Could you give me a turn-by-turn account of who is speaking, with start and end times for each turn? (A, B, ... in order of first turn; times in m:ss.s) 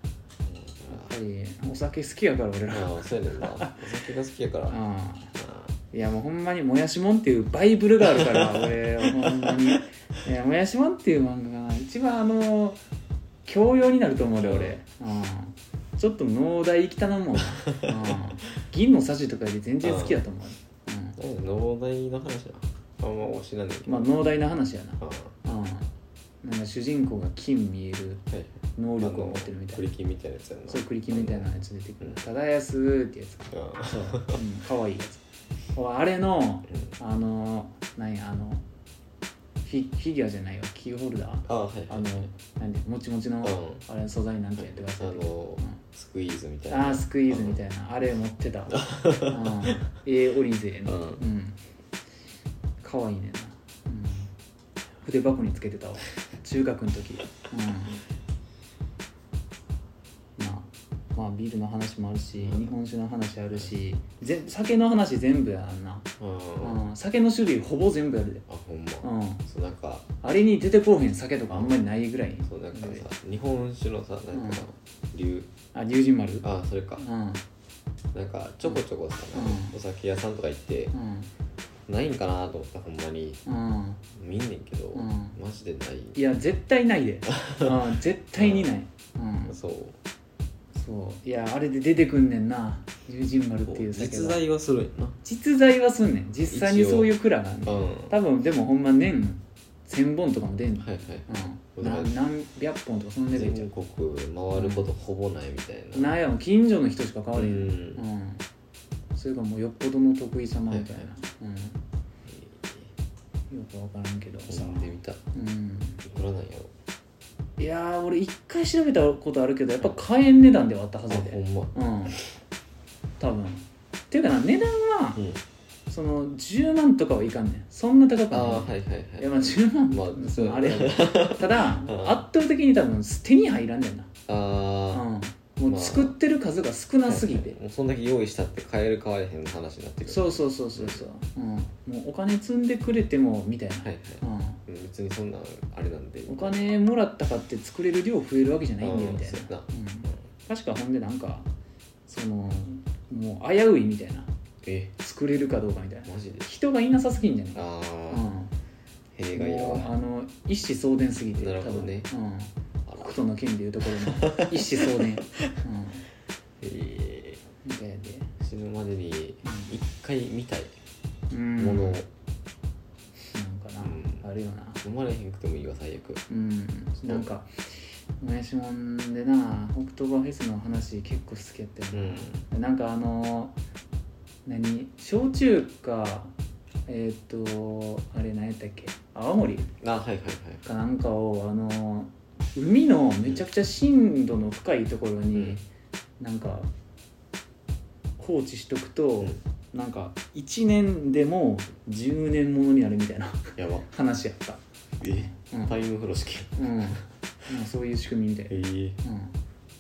0:00.5-0:01.1 A
0:00.9-0:03.8 B
0:02.7-0:04.8 A
0:04.7-0:05.4 B
0:05.4-0:05.7 A
0:05.9-0:12.8 B
0:08.0-0:09.8 A
0:13.5-0:21.2 B
0:14.4-0:14.8 A
0:17.7-0:18.3 A
0:19.8-0:20.2 A
0:21.2-0:24.1 A
0:23.9-0:25.9 B
0:25.0-0:25.4 A
0:26.4-0:28.2 B
0:28.3-0:31.5 A
0:28.8-0:29.8 B
0:30.7-0:35.2 B
0:33.5-0:34.4 A
0:35.7-0:38.6 B
0:39.6-0:45.8 B
0:41.4-0:42.3 A
0:43.4-0:43.8 A
0:44.6-0:47.6 A
0:46.7-0:51.6 B
0:48.7-0:49.8 A
0:50.9-0:51.2 A
0:52.8-0:54.3 B
0:55.0-0:58.0 B
1:00.4-1:06.1 B
1:02.4-1:02.7 A
1:06.2-1:06.8 A
1:06.6-1:08.4 B
1:08.5-1:10.1 A
1:09.0-1:09.4 B
1:10.2-1:13.0 B
1:11.5-1:11.8 A
1:12.4-1:15.5 A
1:14.3-1:14.6 B
1:15.7-1:17.4 B
1:16.4-1:17.0 A
1:18.1-1:21.0 A
1:19.3-1:19.8 B
1:20.9-1:21.3 B
1:21.9-1:23.4 A
1:23.5-1:24.0 B
1:24.1-1:26.2 A
1:25.0-1:25.4 B
1:26.2-1:29.6 B
1:27.3-1:27.8 A
1:28.4-1:28.7 A
1:29.5-1:30.0 A
1:30.8-1:34.4 B
1:33.7-1:35.2 A
1:35.2-1:43.7 B
1:36.5-1:37.1 A
1:37.7-1:38.2 A
1:40.8-1:42.2 A
1:43.3-1:46.2 A
1:44.6-1:44.9 B
1:45.9-1:48.4 B
1:47.3-1:48.0 A
1:49.2-1:51.8 B
1:50.7-1:51.1 A
1:52.2-1:52.9 A
1:53.5-1:56.0 B
1:54.5-1:55.2 A
1:56.0-1:56.7 A
1:57.6-2:02.2 B
2:01.1-2:01.8 A
2:03.2-2:05.2 B
2:05.9-2:14.1 B
2:08.3-2:12.2 A
2:14.3-2:15.1 A
2:14.9-2:17.6 B
2:15.7-2:16.2 A
2:17.1-2:21.0 A
2:20.1-2:24.6 B
2:23.8-2:26.6 A
2:26.3-2:31.5 B
2:28.8-2:30.2 A
2:32.1-2:34.3 B
2:34.6-2:34.9 A
2:35.0-2:38.5 B
2:36.1-2:36.5 A
2:37.6-2:38.3 A
2:39.2-2:39.9 A
2:39.3-2:46.1 B
2:41.4-2:42.1 A
2:42.9-2:43.2 A
2:43.9-2:45.5 A
2:46.6-2:47.4 A
2:47.6-2:48.3 B
2:48.4-2:50.7 A
2:49.4-2:49.7 B
2:51.3-2:52.0 B
2:51.6-2:52.1 A
2:53.3-2:54.8 B
2:53.8-2:54.2 A
2:54.8-2:56.2 A
2:56.3-2:57.5 B
2:57.0-2:57.3 A
2:58.2-3:03.6 B
3:01.9-3:02.4 A
3:04.5-3:06.3 B
3:06.9-3:09.7 B
3:09.8-3:10.6 A
3:10.6-3:15.6 B
3:15.3-3:15.6 A
3:16.2-3:16.7 B
3:18.2-3:25.8 B
3:23.6-3:23.9 A
3:25.0-3:27.0 A
3:26.6-3:29.3 B
3:28.5-3:29.0 A